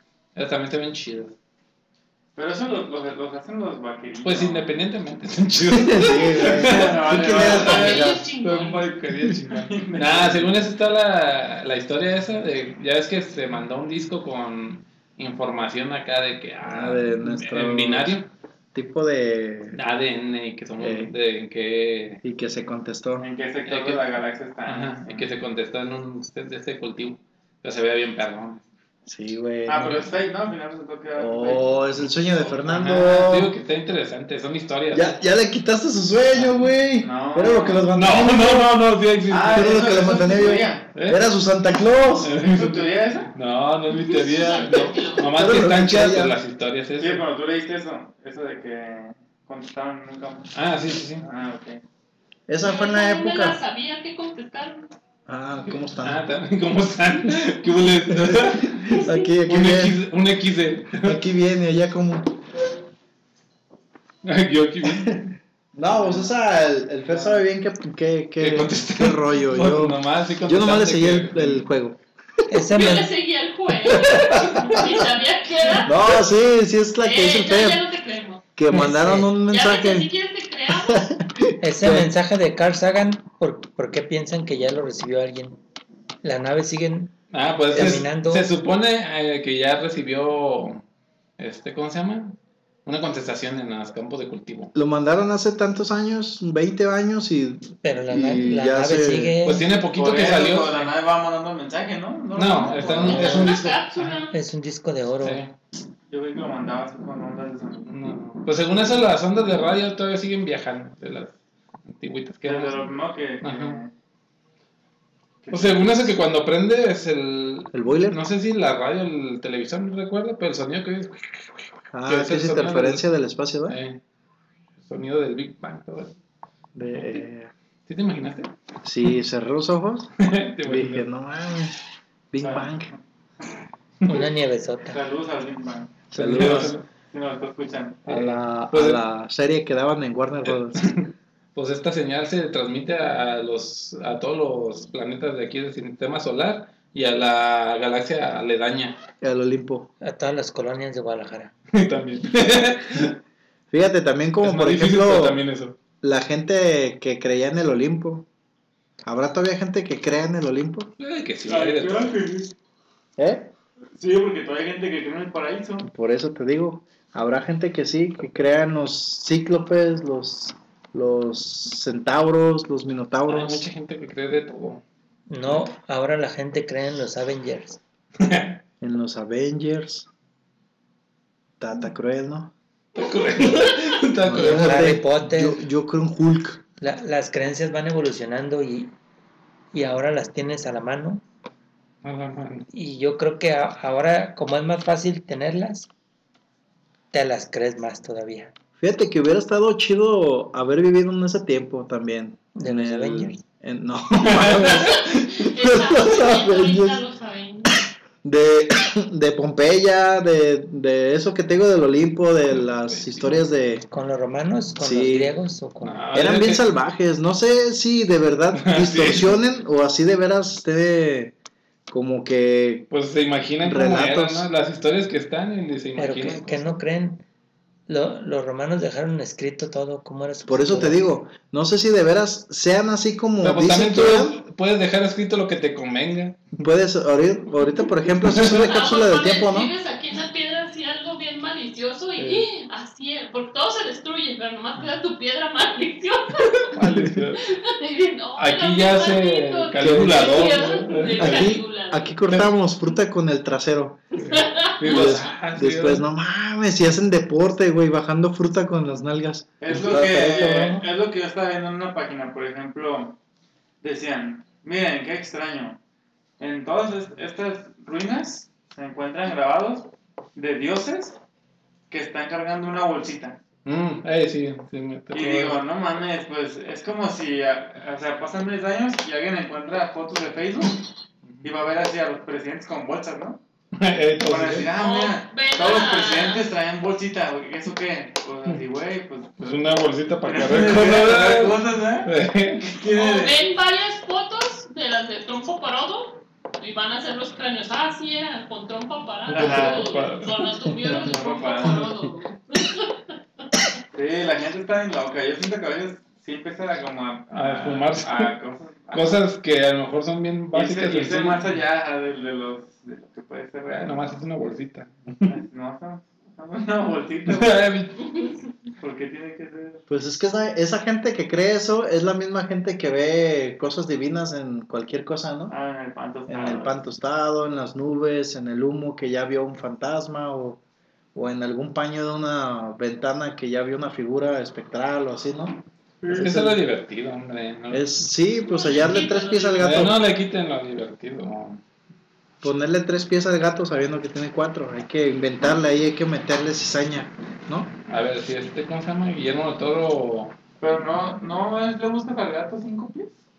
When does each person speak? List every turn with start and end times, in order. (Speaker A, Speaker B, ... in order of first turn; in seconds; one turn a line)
Speaker A: 0.3-1.4
Speaker B: 2.3-4.8
Speaker A: 4.2-18.3
Speaker C: 5.7-8.2
Speaker B: 6.5-8.0
Speaker D: 7.5-8.9
Speaker B: 9.5-10.5
Speaker C: 16.6-18.2
Speaker C: 18.7-19.8
Speaker A: 19.7-22.2
Speaker C: 20.8-21.1
Speaker C: 22.2-23.3
Speaker B: 23.2-25.3
Speaker A: 23.6-24.1
Speaker A: 24.6-28.6
Speaker C: 29.1-30.0
Speaker B: 29.6-31.8
Speaker C: 31.1-33.5
Speaker A: 32.5-35.2
Speaker C: 34.9-38.8
Speaker A: 36.3-36.6
Speaker B: 37.0-37.9
Speaker A: 37.9-40.2
Speaker B: 39.3-40.9
Speaker C: 39.5-42.3
Speaker A: 40.9-41.2
Speaker A: 42.2-47.2
Speaker B: 42.4-43.3
Speaker D: 43.9-45.3
Speaker C: 45.3-46.4
Speaker B: 47.0-50.5
Speaker A: 50.5-51.2
Speaker B: 51.2-51.8
Speaker C: 52.5-53.6
Speaker D: 52.6-54.9
Speaker C: 55.3-56.2
Speaker A: 55.9-61.2
Speaker C: 58.1-60.0
Speaker C: 61.0-62.3
Speaker A: 64.2-65.3
Speaker C: 64.8-65.2
Speaker C: 65.7-72.0
Speaker A: 68.4-71.7
Speaker E: 72.5-73.0
Speaker D: 72.7-76.0
Speaker C: 73.8-75.0
Speaker C: 75.8-77.8
Speaker D: 77.0-78.4
Speaker C: 78.5-80.1
Speaker E: 78.7-79.3
Speaker D: 79.5-81.0
Speaker C: 80.7-82.1
Speaker E: 81.6-85.6
Speaker E: 86.2-87.1
Speaker A: 87.3-90.8
Speaker E: 87.7-88.5
Speaker C: 87.7-88.0
Speaker A: 91.4-94.7
Speaker C: 94.7-99.3
Speaker E: 97.8-99.6
Speaker A: 99.4-100.9
Speaker B: 99.9-103.5
Speaker A: 102.3-104.2
Speaker D: 102.9-104.3
Speaker E: 104.3-105.4
Speaker A: 105.2-105.5
Speaker B: 106.1-107.9
Speaker A: 107.8-111.3
Speaker A: 111.9-112.9
Speaker B: 112.4-113.9
Speaker A: 113.4-113.8
Speaker B: 115.4-116.0
Speaker A: 115.5-123.0
Speaker C: 117.7-118.2
Speaker C: 121.9-123.8
Speaker A: 123.7-124.0
Speaker A: 124.8-126.1
Speaker C: 126.7-127.5
Speaker A: 126.9-127.2
Speaker A: 127.9-128.5
Speaker C: 128.8-131.7
Speaker A: 130.2-131.1
Speaker C: 132.3-132.9
Speaker B: 132.4-132.7
Speaker E: 134.1-135.0
Speaker B: 134.8-136.1
Speaker C: 136.1-136.8
Speaker A: 136.1-136.8
Speaker B: 137.1-138.1
Speaker A: 138.1-139.0
Speaker C: 138.1-141.0
Speaker A: 140.4-149.0
Speaker C: 149.2-149.9
Speaker E: 150.0-151.5
Speaker A: 151.7-153.1
Speaker C: 153.7-155.4
Speaker A: 154.4-155.8
Speaker C: 156.0-158.3
Speaker C: 159.0-160.9
Speaker A: 161.0-162.2
Speaker B: 161.5-162.5
Speaker C: 163.2-163.5
Speaker B: 164.0-165.9
Speaker C: 165.8-173.7
Speaker A: 173.3-174.8
Speaker E: 175.3-177.8
Speaker A: 178.2-178.6
Speaker C: 178.8-180.1
Speaker C: 181.6-182.5
Speaker A: 182.9-185.0
Speaker C: 184.2-186.6
Speaker E: 184.3-185.6
Speaker E: 186.8-188.9
Speaker E: 189.7-191.2
Speaker A: 192.0-192.7
Speaker E: 192.7-195.9
Speaker E: 197.1-198.5
Speaker C: 198.8-207.0
Speaker E: 202.6-203.4
Speaker A: 204.2-204.8
Speaker D: 204.7-207.8
Speaker C: 208.2-213.8
Speaker A: 212.5-213.4
Speaker E: 213.9-216.0
Speaker C: 214.8-215.3
Speaker A: 215.8-216.6
Speaker C: 216.1-221.3
Speaker A: 218.5-219.4
Speaker C: 221.9-222.9
Speaker A: 222.9-226.8
Speaker C: 223.6-224.5
Speaker E: 226.0-227.2
Speaker E: 227.9-231.0
Speaker C: 230.5-234.4
Speaker A: 233.4-236.5
Speaker C: 236.6-239.7
Speaker A: 238.3-238.6
Speaker D: 238.4-246.7
Speaker A: 242.2-242.4
Speaker A: 246.7-247.5
Speaker D: 247.6-252.1
Speaker A: 248.4-251.6
Speaker C: 249.8-254.0
Speaker A: 254.2-256.0
Speaker D: 254.2-255.2
Speaker C: 254.8-260.9
Speaker B: 259.6-263.2
Speaker A: 259.7-260.2
Speaker B: 263.8-265.8
Speaker B: 266.4-271.2
Speaker B: 271.9-273.4
Speaker A: 273.6-275.6
Speaker B: 275.1-280.8
Speaker B: 281.4-283.4
Speaker A: 283.7-284.7
Speaker B: 284.2-289.4
Speaker D: 284.7-286.4
Speaker A: 289.4-292.7
Speaker B: 290.2-292.1
Speaker B: 292.6-293.4
Speaker D: 292.9-302.9
Speaker A: 299.3-300.5
Speaker B: 299.3-299.9
Speaker B: 301.0-301.9
Speaker B: 303.9-309.2
Speaker A: 307.3-308.3
Speaker A: 308.9-311.5
Speaker B: 310.5-314.2
Speaker A: 313.7-315.3
Speaker B: 315.3-317.6
Speaker A: 317.2-318.0
Speaker B: 318.8-319.8
Speaker C: 319.9-325.5
Speaker B: 325.5-326.8
Speaker C: 326.3-330.6
Speaker C: 331.1-336.6
Speaker A: 336.1-337.9
Speaker C: 337.7-340.0
Speaker D: 338.4-339.6
Speaker A: 339.6-341.6
Speaker C: 342.4-347.7
Speaker A: 347.9-350.3
Speaker B: 350.6-353.2